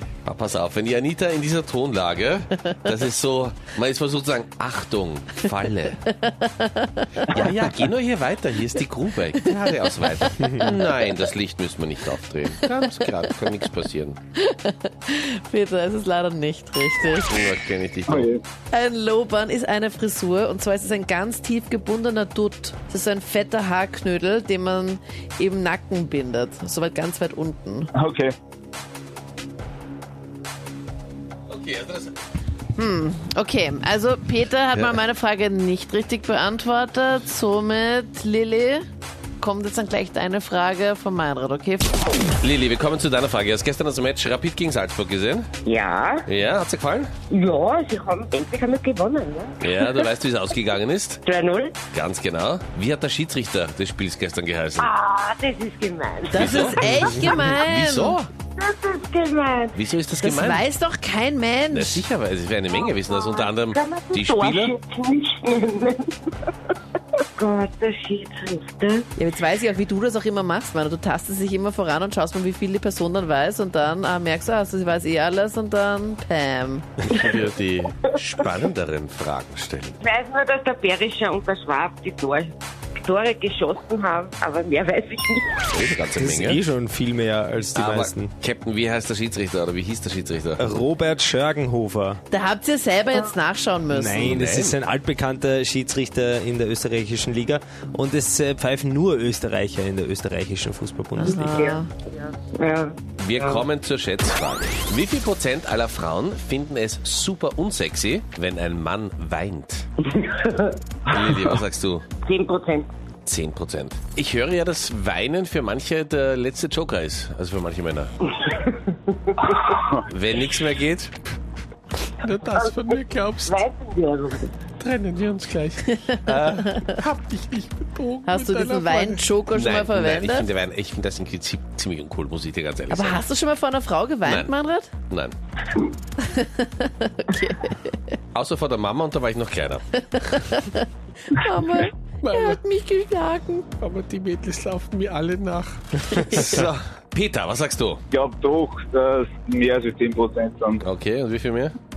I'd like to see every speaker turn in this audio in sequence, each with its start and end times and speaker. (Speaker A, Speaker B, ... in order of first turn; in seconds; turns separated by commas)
Speaker A: 0.2-6.0, Speaker B: 6.2-7.7, Speaker A: 7.3-14.2, Speaker B: 10.2-10.7, Speaker C: 10.4-10.7, Speaker B: 14.4-17.5, Speaker A: 17.3-18.3, Speaker D: 18.1-18.4, Speaker B: 18.7-27.9, Speaker D: 27.9-28.3, Speaker A: 31.5-32.1, Speaker B: 32.8-38.9, Speaker A: 34.7-35.0, Speaker B: 39.4-42.3, Speaker A: 42.4-45.5, Speaker E: 45.6-46.3, Speaker A: 46.3-47.1, Speaker E: 47.3-50.1, Speaker A: 49.6-51.2, Speaker E: 51.2-51.8, Speaker A: 51.9-54.9, Speaker E: 54.8-57.5, Speaker B: 56.3-58.2, Speaker A: 56.3-58.3, Speaker E: 58.6-59.8, Speaker A: 59.8-60.7, Speaker B: 60.2-62.1, Speaker A: 61.7-64.8, Speaker E: 62.7-66.5, Speaker E: 67.4-69.1, Speaker B: 69.2-76.9, Speaker A: 77.1-80.0, Speaker E: 80.0-85.8, Speaker A: 85.7-86.6, Speaker C: 86.1-88.3, Speaker A: 87.7-90.7, Speaker C: 90.6-92.2, Speaker B: 92.3-94.4, Speaker C: 93.9-101.8, Speaker A: 94.2-94.8, Speaker B: 101.2-101.9, Speaker E: 101.2-103.7, Speaker A: 103.2-109.9, Speaker E: 110.0-110.8, Speaker A: 111.1-112.1, Speaker E: 112.2-112.9, Speaker A: 113.3-118.1, Speaker E: 118.4-119.4, Speaker D: 119.7-120.0, Speaker A: 120.1-121.2, Speaker A: 122.1-123.6, Speaker E: 122.3-124.6, Speaker A: 124.8-133.2, Speaker B: 128.2-130.5, Speaker B: 132.9-134.9, Speaker A: 134.2-134.5, Speaker A: 135.1-135.3, Speaker B: 136.2-138.0, Speaker A: 138.3-140.4, Speaker B: 140.0-143.7, Speaker A: 142.2-142.6, Speaker A: 143.8-148.0, Speaker B: 146.1-146.7, Speaker D: 148.1-150.8, Speaker A: 150.8-151.8